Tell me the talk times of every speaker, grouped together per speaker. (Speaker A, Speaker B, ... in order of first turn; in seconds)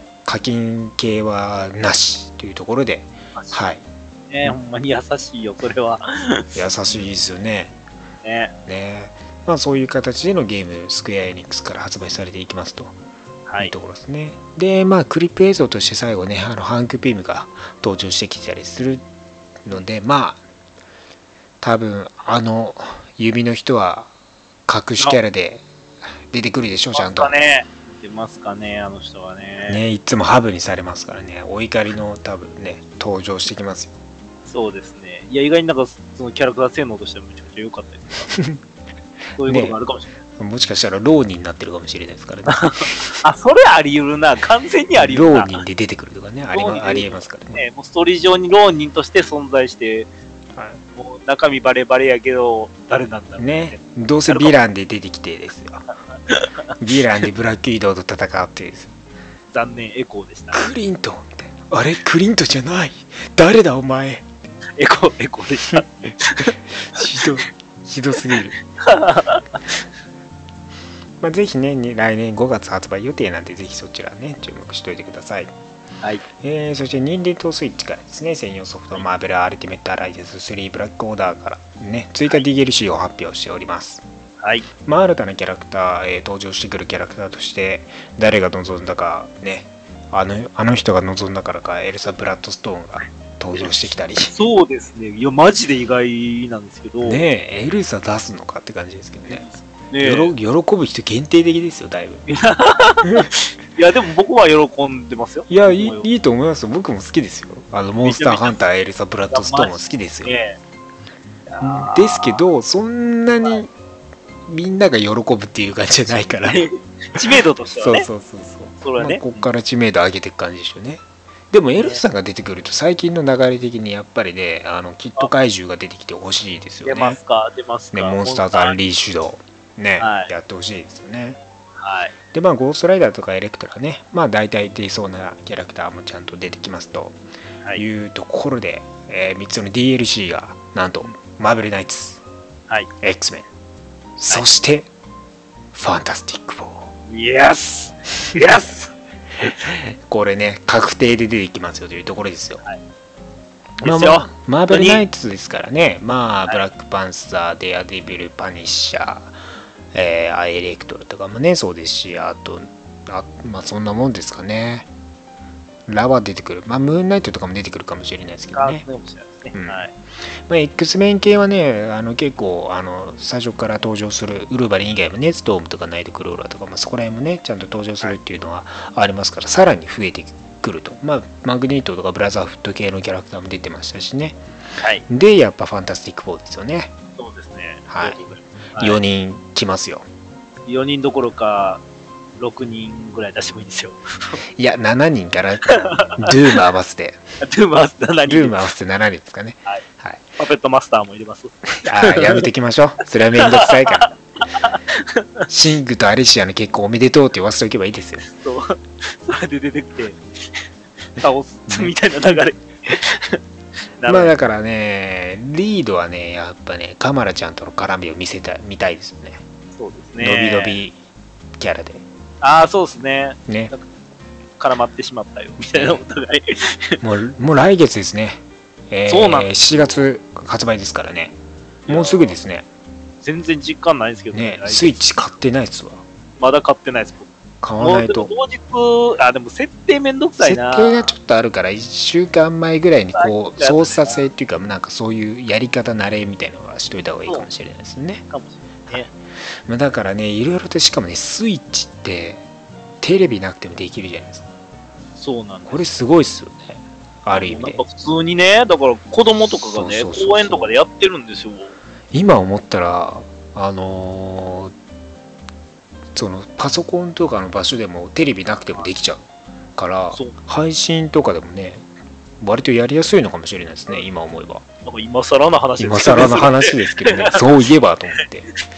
Speaker A: 0.2-3.8, 6.5-7.8, 8.7-12.9, 13.6-19.0, 19.6-20.4, 21.6-24.1, 24.7-25.6, 26.3-27.3, 29.7-34.0, 38.3-38.6, 39.4-39.8, 40.4-43.0, 45.0-47.6, 53.4-55.9, 56.8-58.9, 60.5-64.3, 66.8-68.6, 71.2-75.5, 76.4-84.0, 84.8-94.3, 97.0-99.5, 100.0-102.3, 105.5-110.3, 111.6-113.7, 114.5-116.7, 117.8-127.2, 127.9-131.4, 132.3-137.2, 137.8-142.2, 143.0-143.5, 144.2-144.9, 145.7-146.9, 149.4-152.6, 153.8-159.3, 159.9-164.9, 165.9-168.8, 169.5-169.9, 170.5-184.4, 185.1-186.9, 187.9-188.2, 188.8-190.1, 194.6-197.2, 198.3-200.2, 201.8-204.1, 205.5-208.3, 214.1-219.4, 220.2-221.0, 221.6-222.0, 223.5-223.7, 225.6-226.0, 227.0-231.4, 231.9-232.7, 234.3-236.0, 237.6-238.3, 240.4-248.2, 249.7-252.4, 253.0-254.5, 255.7-257.8, 259.6-260.7, 262.1-264.7, 266.1-269.2, 269.8-271.9, 272.4-274.6, 275.8-278.5
Speaker B: 3.4-3.6, 4.3-7.0, 8.2-8.5, 13.5-13.7, 26.9-29.8, 34.5-38.3, 39.4-40.1, 42.5-45.6, 46.5-50.1, 51.0-54.5, 56.3-56.6, 59.5-60.7, 64.8-67.3, 68.8-69.6, 84.4-84.7, 94.3-97.2, 99.3-100.3, 102.3-106.1, 108.0-108.6, 109.3-110.6, 111.5-112.4, 116.5-118.1, 118.8-119.4, 121.8-122.0, 126.8-128.8, 130.0-130.3, 131.8-132.1, 147.1-149.5, 153.8-155.0, 168.5-169.9, 187.2-189.0, 190.7-191.8, 192.4-194.4, 195.7-196.6, 197.4-198.6, 200.4-202.5, 203.4-205.5, 208.3-210.2, 211.2-213.4, 214.0-214.3, 219.8-220.8, 222.4-223.9, 224.6-227.0, 229.1-230.0, 231.9-232.4, 233.2-235.2, 236.4-241.1, 243.1-244.3, 248.3-249.1, 255.2-255.9, 257.3-261.7, 274.8-277.5